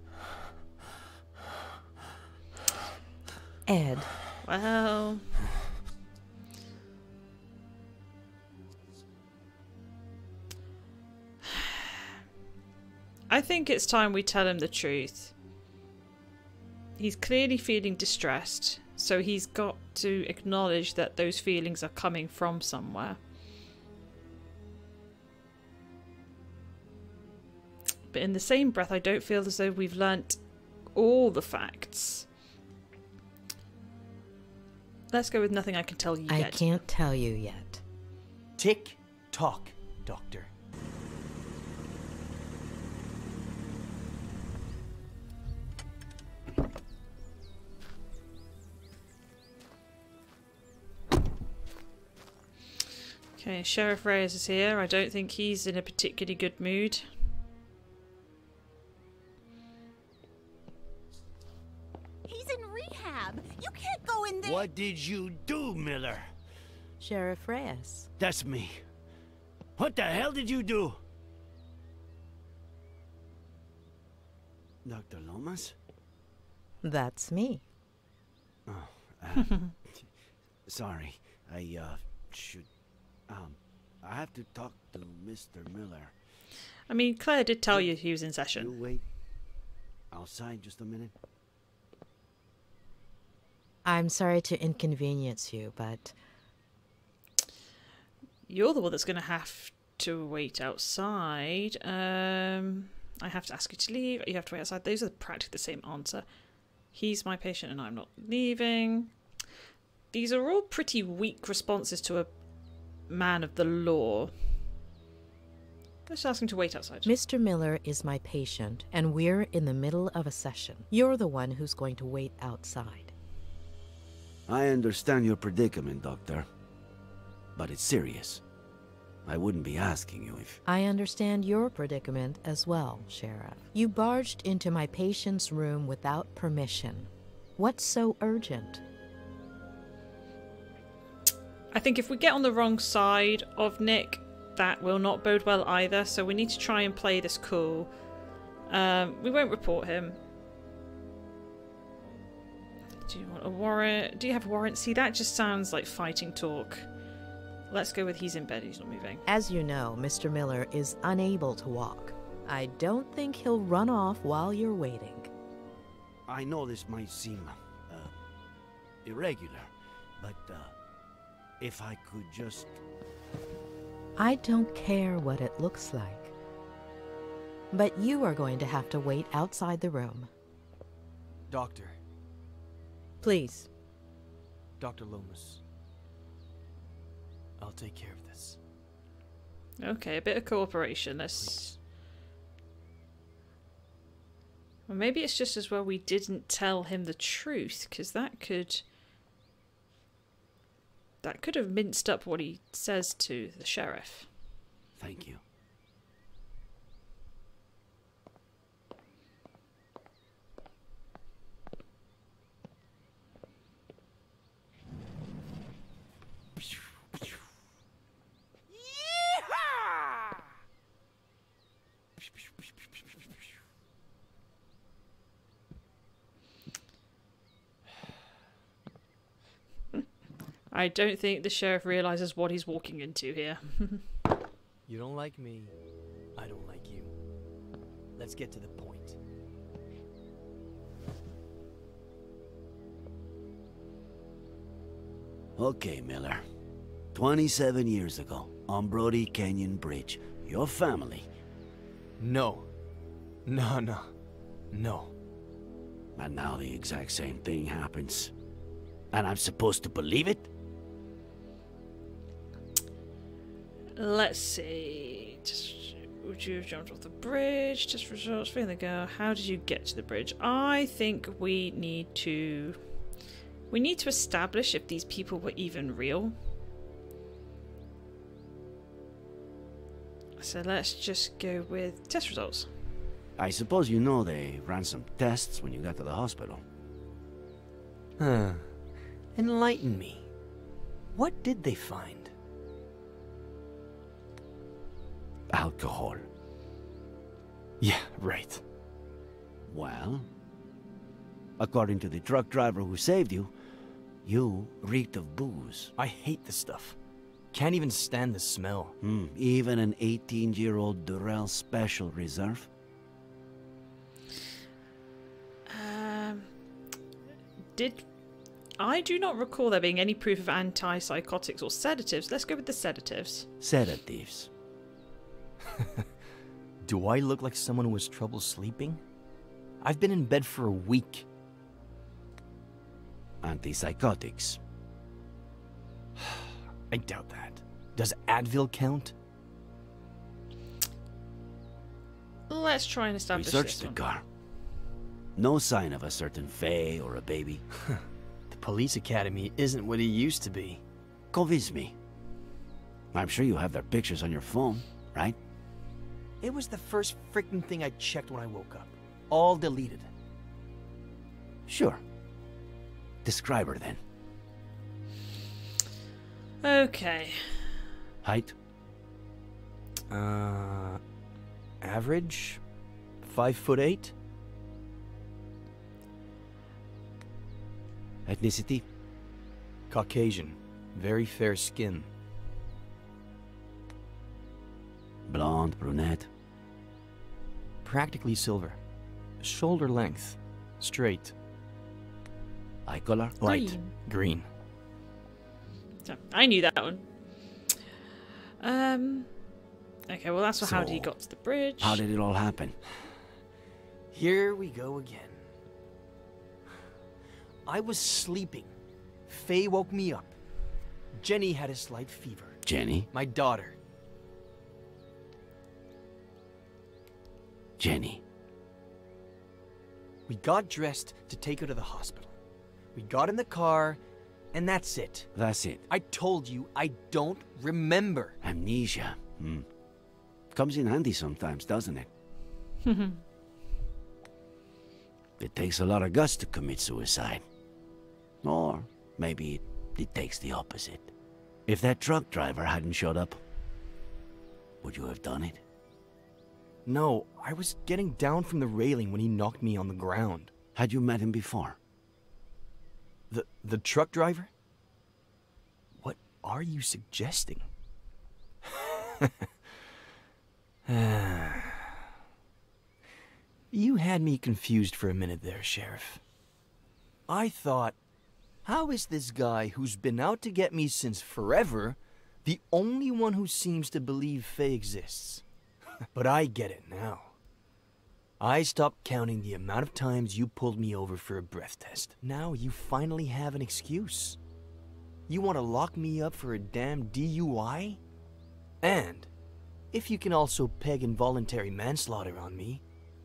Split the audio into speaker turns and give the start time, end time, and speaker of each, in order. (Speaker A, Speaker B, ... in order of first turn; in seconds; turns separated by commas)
Speaker A: 3.6-4.1, Speaker B: 4.4-5.3, Speaker B: 11.4-12.0, Speaker B: 13.3-15.3, Speaker B: 17.0-23.2, Speaker B: 28.1-30.4, Speaker B: 30.9-32.3, Speaker B: 35.1-36.7, Speaker A: 36.3-37.8, Speaker C: 38.6-40.5, Speaker B: 53.4-57.1, Speaker D: 62.2-64.7, Speaker E: 64.4-66.3, Speaker A: 67.0-68.1, Speaker E: 68.2-68.8, Speaker E: 69.8-71.0, Speaker E: 74.8-75.7, Speaker A: 76.8-77.6, Speaker E: 78.7-80.0, Speaker E: 80.7-82.7, Speaker E: 83.3-86.1, Speaker B: 86.9-88.7, Speaker E: 88.5-89.0, Speaker E: 90.1-91.1, Speaker A: 93.8-96.1, Speaker B: 98.5-106.2, Speaker B: 106.9-109.1, Speaker B: 110.1-112.3, Speaker B: 113.1-114.3, Speaker B: 116.1-117.1, Speaker A: 117.0-123.1, Speaker E: 124.5-126.4, Speaker E: 127.5-128.4, Speaker E: 129.2-130.6, Speaker A: 130.7-138.8, Speaker B: 141.7-147.9, Speaker B: 148.7-150.2, Speaker B: 153.1-156.9, Speaker B: 157.7-159.2, Speaker A: 159.2-165.3, Speaker E: 166.3-168.2, Speaker E: 169.0-169.7, Speaker E: 170.2-170.7, Speaker E: 171.6-172.8, Speaker A: 174.2-176.3, Speaker A: 177.7-180.3, Speaker C: 181.5-182.0, Speaker A: 183.2-183.7, Speaker C: 184.8-185.6, Speaker C: 187.6-188.6, Speaker B: 189.8-191.8, Speaker B: 194.9-198.8, Speaker B: 201.2-204.3, Speaker E: 205.0-205.4, Speaker B: 230.7-234.0, Speaker C: 234.9-235.7, Speaker C: 236.3-237.1, Speaker C: 238.2-239.2, Speaker E: 245.6-246.4, Speaker E: 247.1-251.3, Speaker C: 252.2-252.7, Speaker C: 253.4-254.1, Speaker C: 254.7-255.1, Speaker E: 256.1-258.3, Speaker E: 259.1-260.5, Speaker B: 264.0-272.8, Speaker B: 273.7-276.3, Speaker B: 280.4-282.7, Speaker E: 283.4-286.6, Speaker C: 288.2-288.7, Speaker C: 289.3-290.3, Speaker C: 291.1-292.3, Speaker E: 295.5-296.2, Speaker C: 297.8-298.6, Speaker E: 299.7-300.3, Speaker E: 301.6-303.5, Speaker E: 304.2-305.9, Speaker C: 306.0-307.0, Speaker C: 307.5-308.9, Speaker E: 309.0-312.7, Speaker B: 315.7-316.5, Speaker B: 317.8-318.1, Speaker B: 318.8-323.5, Speaker E: 323.6-324.5, Speaker C: 325.7-326.0, Speaker C: 326.8-329.0, Speaker C: 329.8-331.2, Speaker E: 333.4-334.6, Speaker C: 336.2-339.1, Speaker B: 342.5-344.0, Speaker E: 343.3-344.2, Speaker E: 345.4-347.6, Speaker C: 347.8-350.8, Speaker E: 351.3-351.9, Speaker E: 353.1-355.4, Speaker C: 356.4-360.1, Speaker E: 361.7-362.0, Speaker E: 363.2-364.0, Speaker B: 366.6-367.7, Speaker E: 368.2-368.5, Speaker C: 370.1-371.0, Speaker C: 371.8-372.6, Speaker C: 373.2-374.1, Speaker E: 378.2-378.8, Speaker C: 379.9-382.1, Speaker E: 385.2-386.3, Speaker C: 387.8-388.8, Speaker C: 389.4-391.3, Speaker E: 392.9-393.4, Speaker C: 393.4-394.4, Speaker B: 393.4-393.9, Speaker B: 396.0-397.0, Speaker B: 398.6-399.3, Speaker B: 400.1-402.0, Speaker E: 400.6-401.1, Speaker E: 401.8-402.8, Speaker C: 404.1-405.4, Speaker C: 407.6-408.7, Speaker C: 409.3-410.3, Speaker C: 411.1-412.6, Speaker E: 412.6-413.1, Speaker C: 413.1-413.8, Speaker E: 417.8-418.2, Speaker C: 420.3-422.3, Speaker C: 422.9-424.0, Speaker C: 424.5-425.3, Speaker E: 425.3-425.8, Speaker C: 425.9-428.4, Speaker E: 428.4-429.6, Speaker E: 430.5-432.1, Speaker B: 432.9-433.2, Speaker E: 435.4-437.4, Speaker E: 438.4-441.1, Speaker E: 441.7-443.4, Speaker E: 444.8-445.6, Speaker C: 446.9-450.5, Speaker E: 450.7-451.8, Speaker C: 453.3-454.5, Speaker C: 455.9-457.6, Speaker C: 458.6-459.5, Speaker C: 460.9-461.9, Speaker C: 463.7-466.2, Speaker C: 467.3-467.9, Speaker C: 468.6-475.4, Speaker C: 476.1-477.3, Speaker C: 478.4-484.4, Speaker C: 485.3-488.0, Speaker C: 488.8-489.3, Speaker C: 489.9-492.8